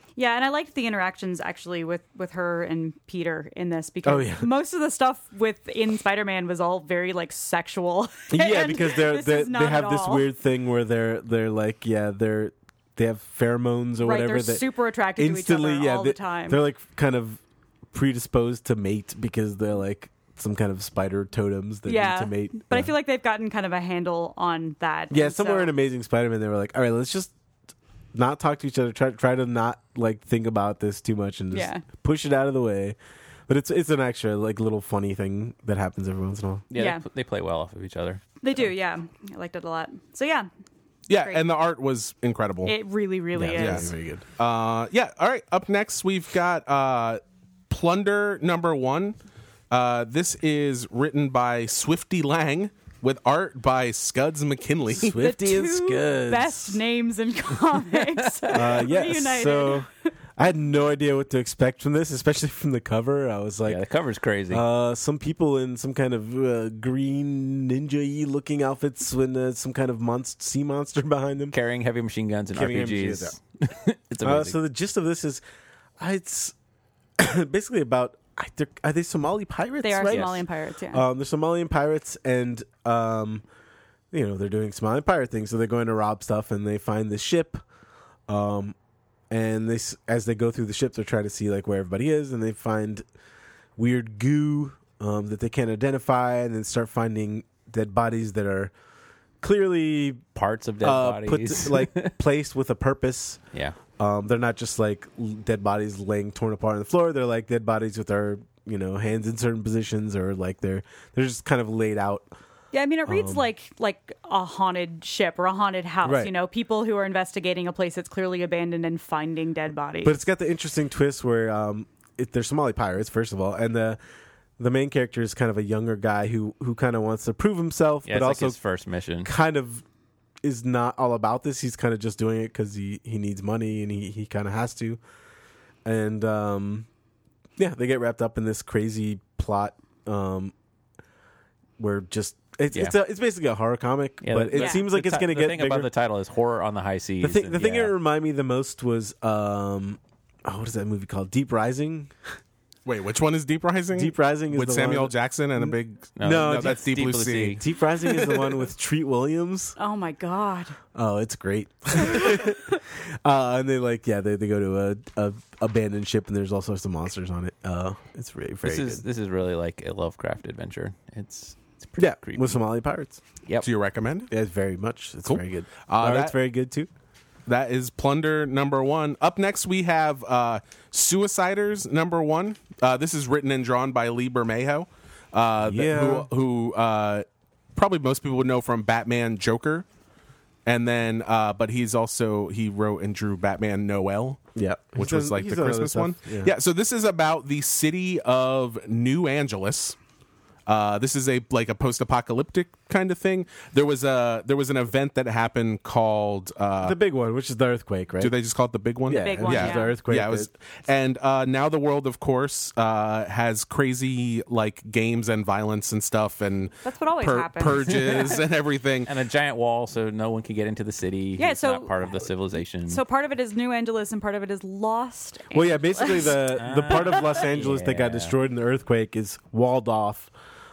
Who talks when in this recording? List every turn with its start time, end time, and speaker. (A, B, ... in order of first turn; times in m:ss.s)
0:00.2-0:10.3 A
0:04.0-0:04.5 B
0:08.3-0:17.4 B
0:14.0-0:16.6 A
0:17.9-0:22.9 B
0:21.9-0:25.7 A
0:25.1-0:27.3 B
0:28.1-0:33.0 B
0:31.5-0:31.8 A
0:33.5-0:36.7 B
0:36.7-0:38.2 C
0:36.8-0:37.0 A
0:38.4-0:40.5 A
0:41.1-0:42.8 D
0:41.1-0:41.4 A
0:42.7-0:43.9 A
0:43.4-0:44.2 B
0:43.6-0:49.2 D
0:49.7-0:55.2 D
0:54.9-0:56.8 B
0:55.2-0:59.9 A
0:58.5-1:03.8 B
1:03.7-1:04.6 C
1:04.5-1:11.6 B
1:11.5-1:14.6 C
1:12.5-1:13.4 B
1:14.2-1:15.4 B
1:16.0-1:16.6 B
1:17.2-1:23.4 B
1:19.8-1:21.0 A
1:20.1-1:20.4 C
1:24.1-1:27.6 B
1:28.3-1:28.8 B
1:29.3-1:33.0 B
1:33.8-1:38.7 B
1:39.4-1:40.2 B
1:40.4-1:42.1 C
1:40.8-1:43.4 B
1:44.0-1:52.3 B
1:52.7-2:00.2 A
1:53.1-1:53.5 B
1:56.0-1:56.3 B
2:00.0-2:04.0 B
2:04.6-2:08.6 B
2:08.1-2:09.3 C
2:09.2-2:09.8 B
2:10.4-2:15.0 B
2:15.8-2:16.9 B
2:17.6-2:20.5 B
2:21.8-2:25.9 B
2:22.7-2:23.0 C
2:24.2-2:27.9 C
2:24.5-2:24.8 A
2:27.2-2:32.2 B
2:32.8-2:38.5 D
2:33.9-2:36.8 B
2:36.2-2:37.6 C
2:37.6-2:39.8 B
2:39.8-2:40.8 A
2:40.9-2:49.0 B
2:42.1-2:42.5 A
2:48.6-2:52.6 C
2:52.0-2:53.2 B
2:53.6-2:54.3 D
2:54.3-2:56.9 B
2:55.3-2:56.4 D
2:57.5-3:09.8 D
3:05.6-3:06.3 B
3:10.7-3:14.4 D
3:14.6-3:16.5 B
3:15.0-3:20.0 D
3:20.7-3:27.0 D
3:26.8-3:28.3 B
3:28.2-3:39.1 D
3:29.1-3:30.5 B
3:29.2-3:30.0 A
3:36.8-3:38.4 A
3:37.9-3:38.4 C
3:39.0-3:43.0 C
3:41.4-3:42.0 A
3:42.9-3:46.4 A
3:45.5-3:50.3 B
3:46.5-3:48.4 C